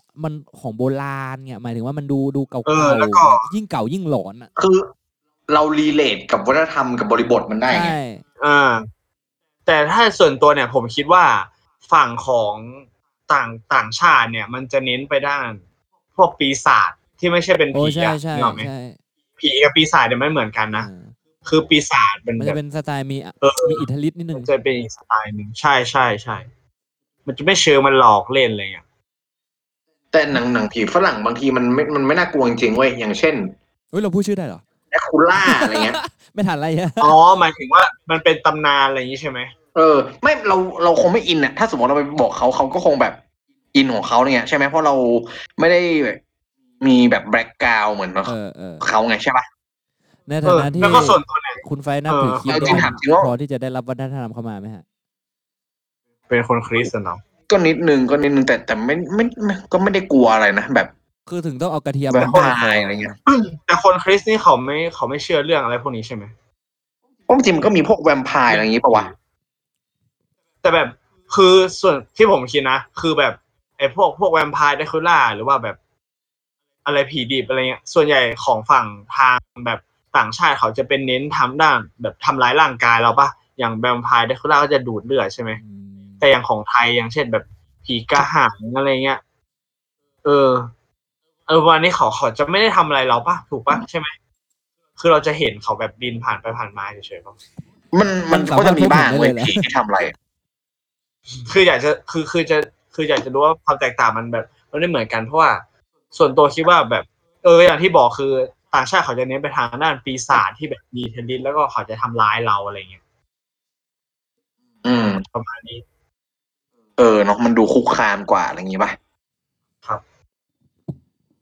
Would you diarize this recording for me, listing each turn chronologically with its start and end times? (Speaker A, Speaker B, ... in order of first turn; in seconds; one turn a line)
Speaker A: 0.1-4.5
Speaker B: 2.6-3.5
Speaker C: 4.5-4.9
Speaker C: 5.5-8.0
Speaker A: 7.7-8.2
Speaker B: 8.4-8.9
Speaker B: 9.7-15.6
Speaker B: 16.1-18.7
Speaker A: 17.7-19.0
Speaker B: 19.4-20.9
Speaker A: 20.8-21.1
Speaker B: 21.4-22.6
Speaker A: 22.4-24.5
Speaker B: 23.4-26.5
Speaker B: 27.3-28.8
Speaker C: 30.1-33.5
Speaker A: 33.9-34.6
Speaker C: 34.9-36.0
Speaker A: 35.4-37.1
Speaker B: 37.0-39.5
Speaker C: 39.7-43.2
Speaker C: 43.7-46.2
Speaker C: 46.8-49.4
Speaker A: 48.2-48.9
Speaker A: 50.3-54.8
Speaker B: 50.4-52.9
Speaker C: 52.5-53.3
Speaker B: 56.3-57.2
Speaker C: 57.5-60.9
Speaker A: 61.3-63.1
Speaker C: 62.1-63.2
Speaker B: 63.3-66.3
Speaker C: 67.3-69.1
Speaker B: 68.5-69.1
Speaker B: 70.6-75.8
Speaker B: 76.8-85.6
Speaker A: 85.6-86.2
Speaker B: 86.2-89.2
Speaker B: 90.2-90.7
Speaker B: 91.5-94.1
Speaker B: 95.0-97.4
Speaker C: 97.9-100.1
Speaker A: 98.3-99.7
Speaker B: 101.4-105.6
Speaker B: 106.1-113.0
Speaker C: 114.8-115.2
Speaker B: 115.3-115.8
Speaker C: 117.0-119.0